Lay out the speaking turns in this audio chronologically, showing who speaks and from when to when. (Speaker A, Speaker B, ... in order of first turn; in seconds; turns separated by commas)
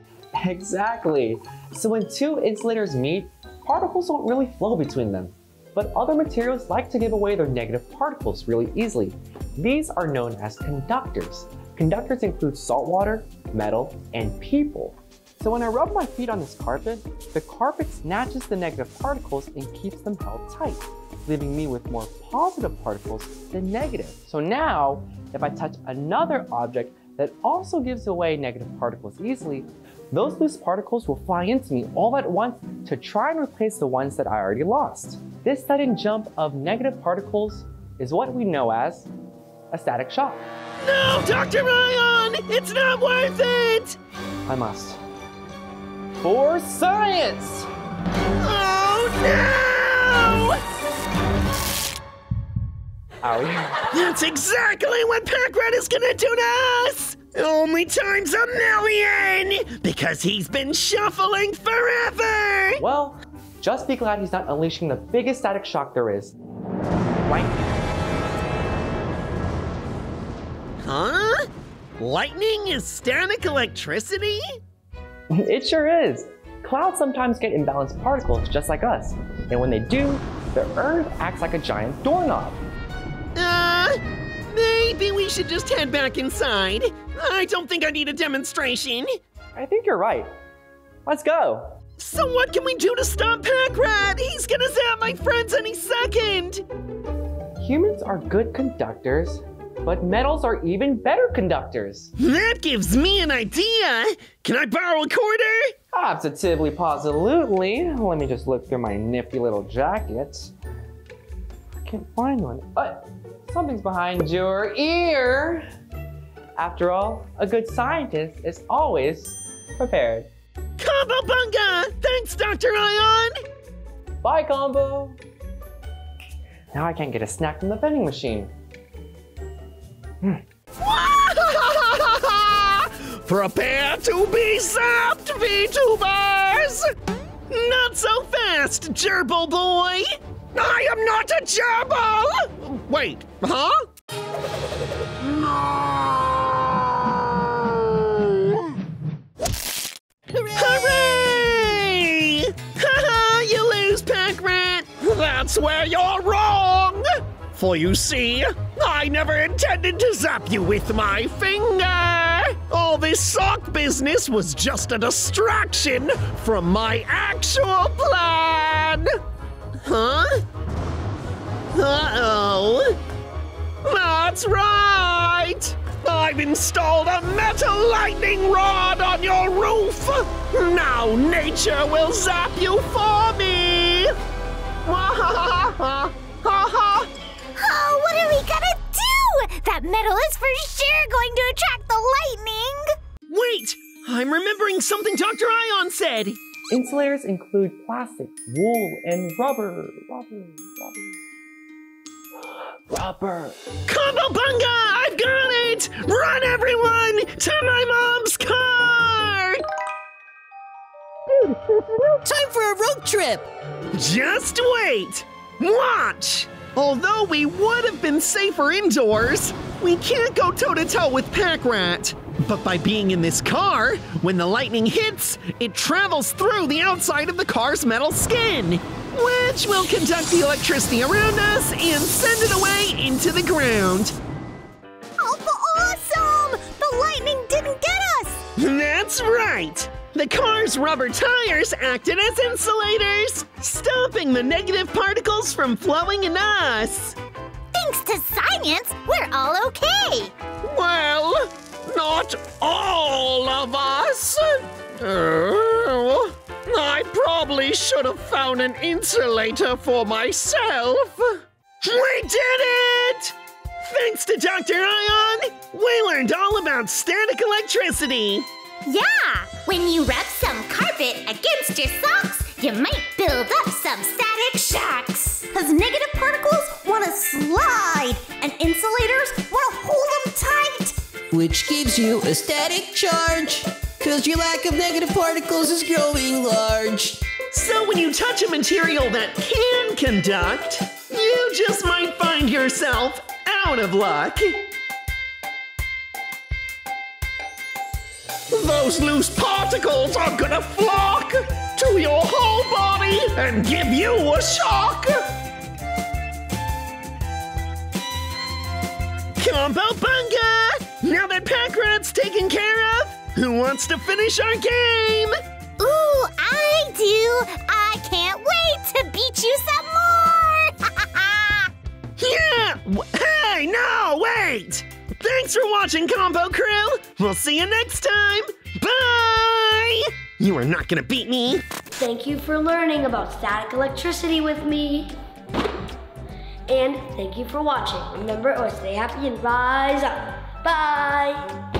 Speaker A: 0.4-39.1, Speaker A: 39.7-40.4, Speaker B: 40.8-44.0, Speaker A: 44.5-45.0, Speaker A: 46.2-47.7, Speaker B: 48.4-50.6, Speaker A: 53.2-53.9, Speaker B: 53.9-62.8, Speaker A: 62.8-66.3, Speaker A: 67.2-67.8, Speaker B: 70.8-71.4, Speaker B: 72.0-74.4, Speaker A: 75.3-82.6, Speaker B: 83.3-83.9, Speaker B: 84.5-89.1, Speaker A: 89.5-90.3, Speaker A: 91.0-91.7, Speaker B: 92.0-96.6, Speaker A: 97.6-102.1, Speaker B: 102.2-105.7, Speaker A: 105.9-110.5, Speaker A: 111.8-115.6, Speaker A: 116.6-120.3, Speaker B: 120.8-123.3, Speaker A: 124.2-125.2, Speaker A: 126.7-128.5, Speaker B: 130.8-136.8, Speaker B: 137.5-143.7, Speaker B: 145.2-148.6, Speaker C: 150.4-151.5, Speaker B: 150.5-169.0, Speaker B: 169.8-170.3, Speaker B: 171.7-172.9, Speaker B: 173.8-184.1, Speaker B: 184.8-187.1, Speaker D: 187.6-192.8, Speaker B: 193.3-196.4, Speaker A: 196.7-201.2, Speaker A: 202.9-203.6, Speaker B: 203.9-209.6, Speaker C: 211.4-213.5, Speaker B: 213.9-234.1, Speaker D: 235.2-238.4, Speaker B: 238.6-247.2, Speaker D: 247.7-250.3, Speaker B: 250.6-254.4, Speaker B: 255.0-268.5, Speaker D: 268.9-280.9, Speaker C: 281.3-287.2, Speaker B: 287.5-294.7, Speaker B: 298.5-305.1, Speaker B: 309.4-315.3, Speaker D: 315.8-321.7, Speaker B: 322.2-331.6, Speaker E: 332.0-335.1, Speaker E: 336.7-341.4